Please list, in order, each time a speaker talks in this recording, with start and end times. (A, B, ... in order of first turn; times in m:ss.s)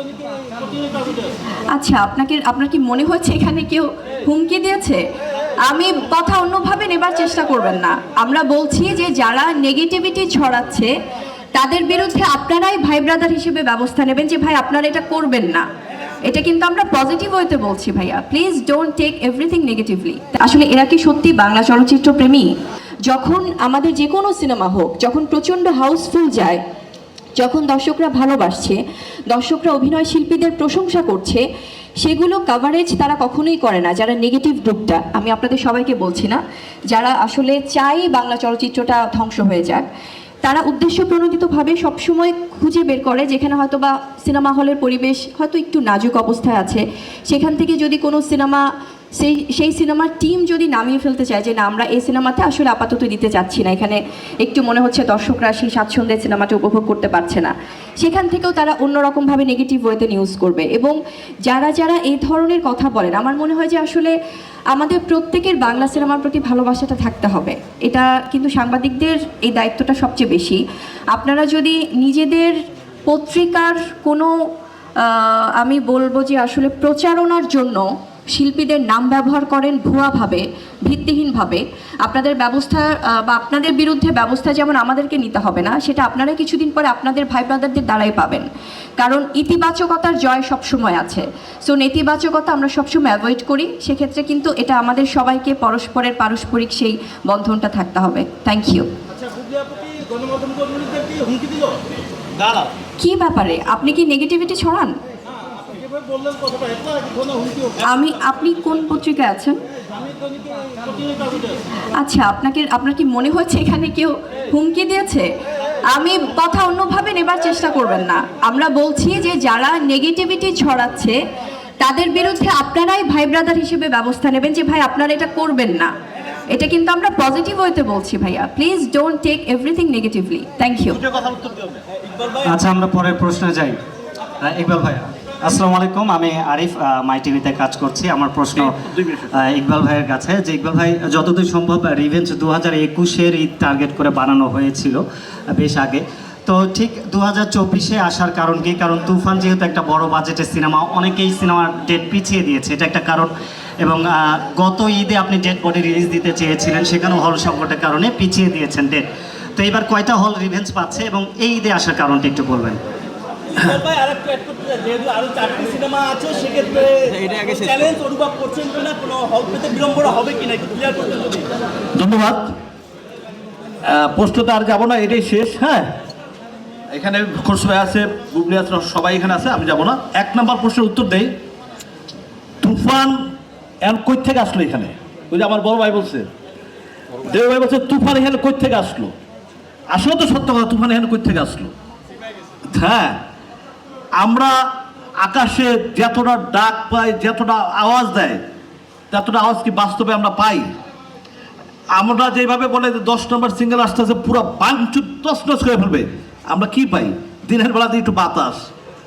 0:01.7-0:05.0 A
0:05.6-0:10.9 A
0:11.5-0:15.6 A
0:16.2-0:22.5 A
0:23.1-0:26.6 A
0:27.4-0:28.8 A
0:29.3-0:31.4 A
0:32.0-0:39.8 A
0:40.4-0:48.6 A
0:49.2-1:01.0 A
1:01.5-1:04.1 A
1:04.7-1:10.6 A
1:11.1-1:14.3 A
1:15.0-1:28.5 A
1:29.0-1:38.9 A
1:40.1-1:41.7 B
1:42.4-1:42.7 C
1:43.0-1:44.9 A
1:47.8-1:49.6 A
1:51.9-1:55.3 A
1:55.9-2:01.2 A
2:01.8-2:05.9 A
2:06.5-2:11.0 A
2:10.9-2:11.8 C
2:12.4-2:13.8 D
2:14.4-2:18.8 D
2:18.6-2:19.3 C
2:19.3-2:25.0 D
2:25.5-2:42.8 D
2:43.6-2:43.9 C
2:44.0-2:51.2 B
2:46.7-2:47.9 C
2:49.9-2:50.4 C
2:51.9-2:52.5 C
2:53.8-2:55.9 C
2:56.9-3:01.4 C
3:02.6-3:03.2 C
3:03.8-3:06.3 C
3:07.2-3:09.1 C
3:09.9-3:11.7 C
3:12.7-3:13.2 C
3:14.2-3:14.6 C
3:15.2-3:18.4 C
3:19.1-3:20.7 C
3:22.0-3:28.7 C